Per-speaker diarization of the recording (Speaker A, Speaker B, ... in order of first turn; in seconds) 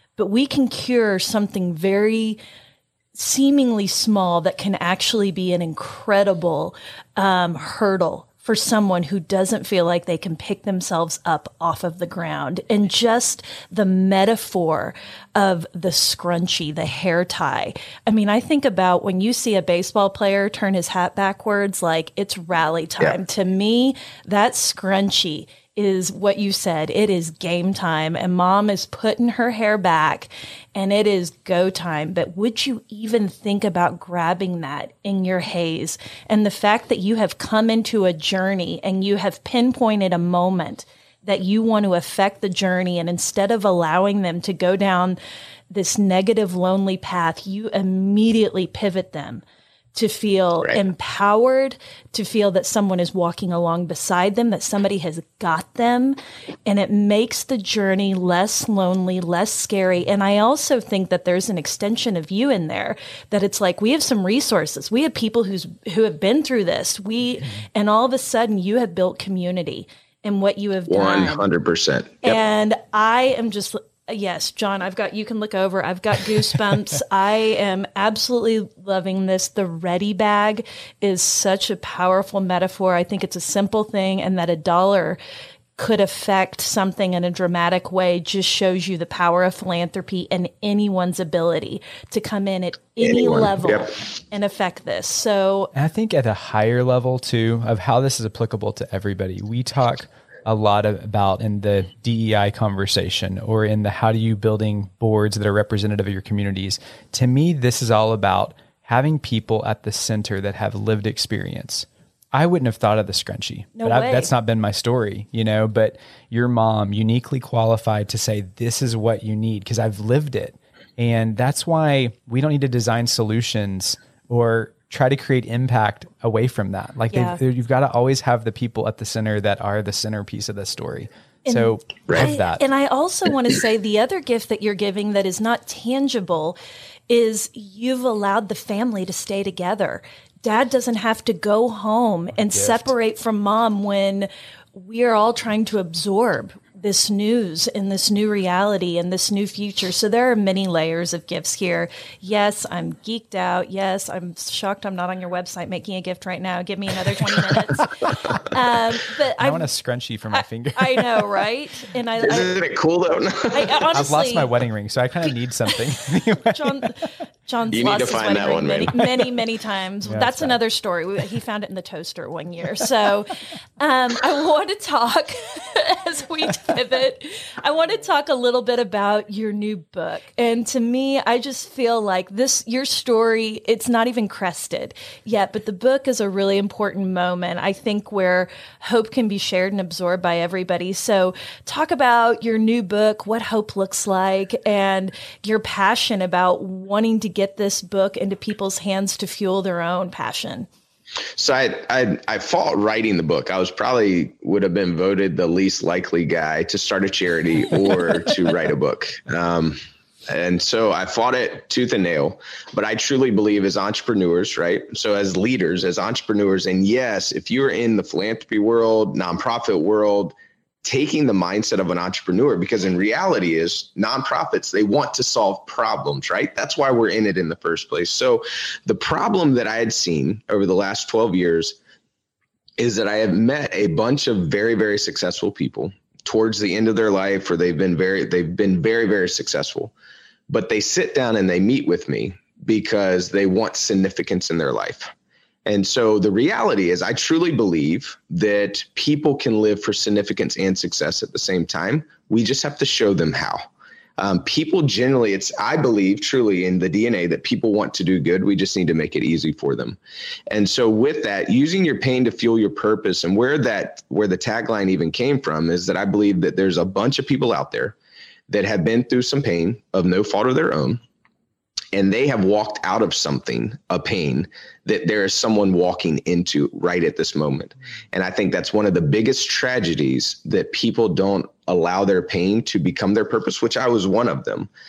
Speaker A: 0.2-2.4, 3.1-45.2, 45.7-49.4, 50.0-71.5, 72.2-85.2, 85.8-95.7, 113.8-114.3, 127.1-127.4, 131.5-136.6, 137.1-159.7, 160.3-162.6, 163.5-164.5, 166.4-200.7
Speaker B: 70.9-72.4, 93.0-93.9, 162.2-163.8, 167.7-169.3, 201.4-231.8, 232.8-239.9, 240.5-245.1, 245.7-253.7, 254.2-260.0, 260.5-268.0, 268.5-271.0, 271.9-284.7
Speaker C: 95.8-132.7, 142.4-142.9, 159.4-161.3, 163.9-166.9, 170.0-170.6